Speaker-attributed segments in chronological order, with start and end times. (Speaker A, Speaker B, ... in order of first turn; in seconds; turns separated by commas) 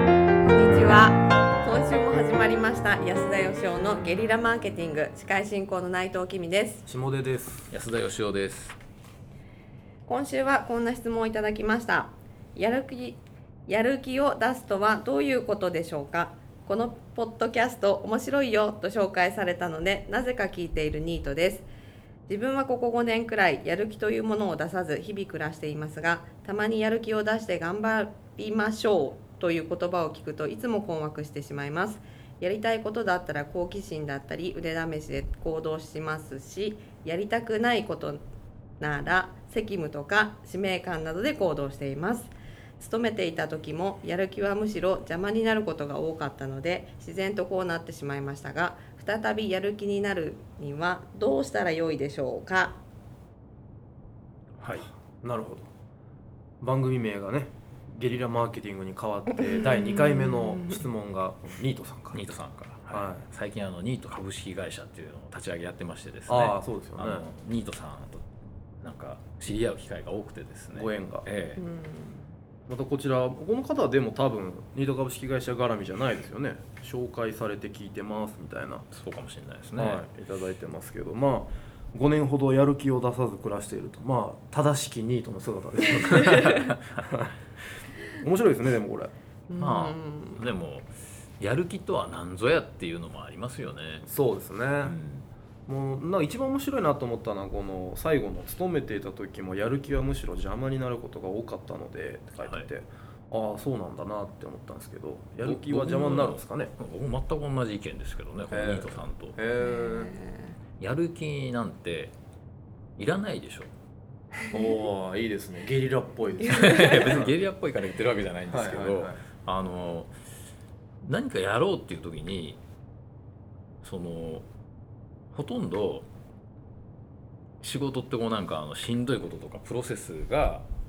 Speaker A: 0.4-6.9, Speaker B: 6.9-7.7, Speaker C: 7.7-8.8, Speaker A: 10.1-21.7, Speaker A: 22.3-38.2, Speaker A: 38.8-52.8, Speaker C: 54.6-54.9, Speaker B: 55.2-55.7, Speaker B: 56.6-62.2, Speaker A: 59.8-60.8, Speaker C: 62.1-68.2, Speaker B: 62.9-63.3, Speaker B: 66.3-67.3, Speaker C: 68.8-71.6, Speaker B: 70.7-71.3, Speaker A: 71.6-72.3, Speaker B: 72.7-78.9, Speaker C: 78.9-80.0, Speaker B: 79.8-87.3, Speaker B: 88.1-89.1, Speaker A: 89.5-90.4, Speaker C: 89.6-94.1, Speaker B: 94.1-95.0, Speaker C: 94.8-95.3, Speaker B: 95.7-106.7, Speaker C: 102.4-102.7, Speaker C: 105.4-109.4, Speaker B: 108.5-110.2, Speaker A: 109.6-110.5, Speaker C: 110.8-112.1, Speaker C: 113.0-113.7, Speaker B: 114.5-117.4, Speaker C: 116.4-120.1, Speaker B: 118.5-119.2, Speaker C: 121.0-122.6, Speaker C: 123.8-124.5, Speaker C: 125.3-126.1, Speaker C: 127.6-130.7